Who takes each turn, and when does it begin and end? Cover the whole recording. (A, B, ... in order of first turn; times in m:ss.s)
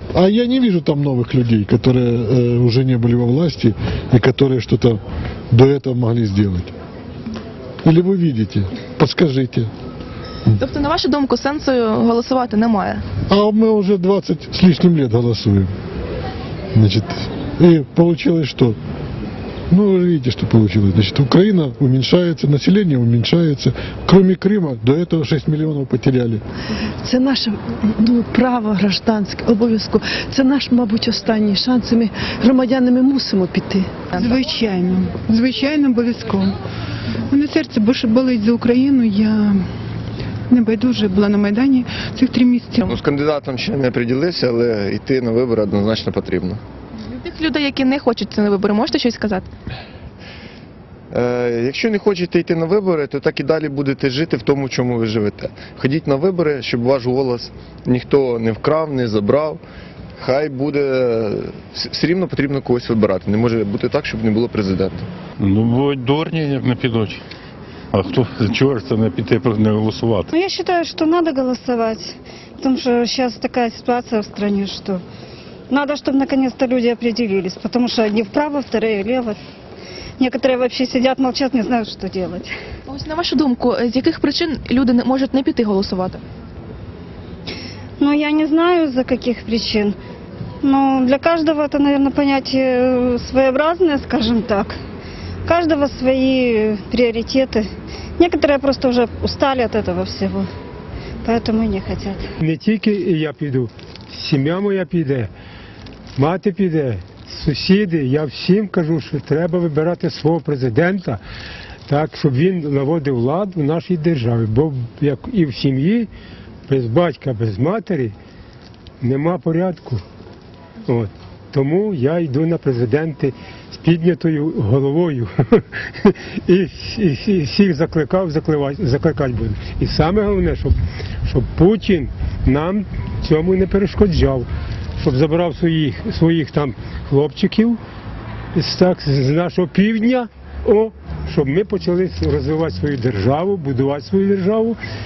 0:00.1-0:06.7 A
0:07.8-0:09.7 A
0:10.6-0:13.0 B
0:13.3-0:15.7 A
0:16.7-0:18.8 A
0:19.7-0:26.4 A
0:27.0-0:33.9 C
0:34.2-0:36.5 D
0:37.3-0:39.6 D
0:40.5-0:42.9 D
0:42.8-0:46.6 E
0:47.0-0:49.5 B
0:51.1-0:59.6 E
1:00.2-1:05.0 E
1:05.4-1:07.2 F
1:07.9-1:10.3 F
1:10.3-1:15.0 G
1:15.7-1:19.4 G
1:20.2-1:22.5 G
1:22.9-1:26.2 B
1:28.0-1:30.0 G
1:30.6-1:34.8 G
1:35.4-1:37.6 G
1:38.2-1:40.5 G
1:41.2-1:42.3 G
1:42.4-1:45.3 H
1:46.2-1:51.2 H
1:51.9-1:56.1 H
1:56.7-1:58.1 H
1:59.0-2:00.0 H
2:00.8-2:17.8 H
2:18.5-2:24.8 H